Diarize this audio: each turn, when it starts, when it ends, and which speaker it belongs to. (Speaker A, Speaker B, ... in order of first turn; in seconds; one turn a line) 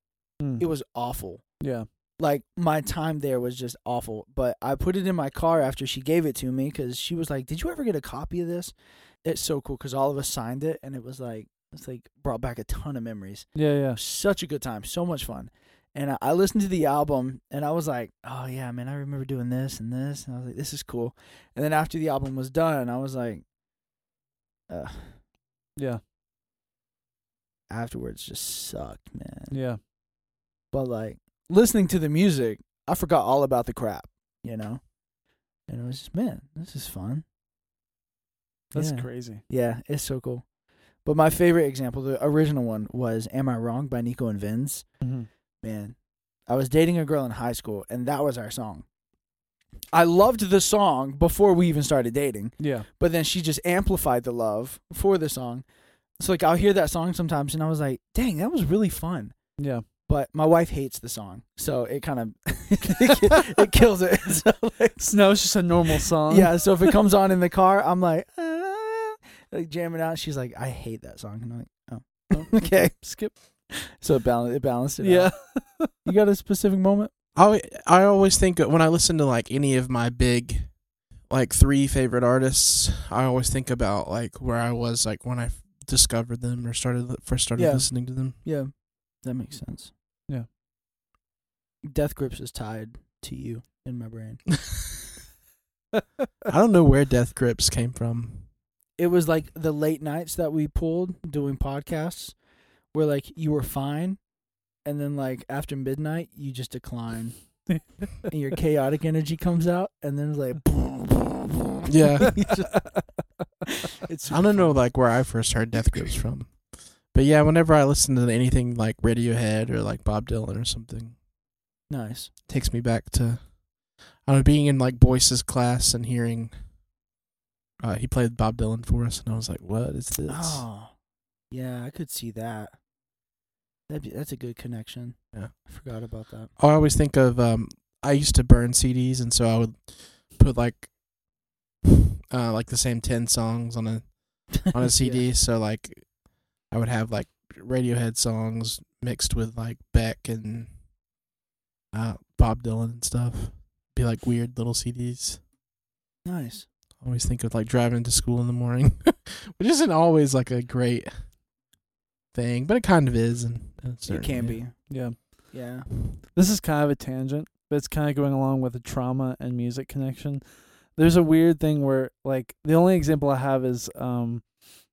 Speaker A: 0.4-0.7
Speaker B: 0.6-23.4
Speaker A: 1.6-1.9
Speaker A: 13.5-14.0
Speaker B: 24.7-25.2
Speaker A: 25.8-26.0
Speaker B: 27.7-29.6
Speaker A: 29.5-29.8
Speaker B: 30.7-35.0
Speaker B: 35.6-37.2
Speaker A: 38.7-39.4
Speaker B: 38.7-48.9
Speaker A: 45.0-45.3
Speaker B: 49.9-65.6
Speaker A: 52.6-52.9
Speaker A: 59.6-59.8
Speaker A: 65.0-67.0
Speaker B: 66.3-77.1
Speaker A: 72.3-73.4
Speaker A: 75.0-76.0
Speaker C: 77.3-88.4
Speaker B: 87.5-89.9
Speaker B: 91.8-94.5
Speaker C: 96.5-98.5
Speaker B: 99.0-104.2
Speaker B: 104.8-111.6
Speaker A: 107.8-108.0
Speaker C: 111.9-112.6
Speaker B: 112.3-113.2
Speaker B: 114.0-114.9
Speaker C: 114.3-121.2
Speaker B: 121.9-122.3
Speaker C: 122.5-126.8
Speaker C: 127.8-130.7
Speaker B: 130.3-131.0
Speaker B: 131.5-132.8
Speaker B: 133.9-136.5
Speaker C: 135.3-140.9
Speaker C: 141.8-150.8
Speaker B: 144.8-145.3
Speaker C: 151.9-155.4
Speaker B: 156.2-156.7
Speaker C: 157.0-161.4
Speaker C: 162.3-164.6
Speaker B: 164.1-165.9
Speaker A: 164.9-174.6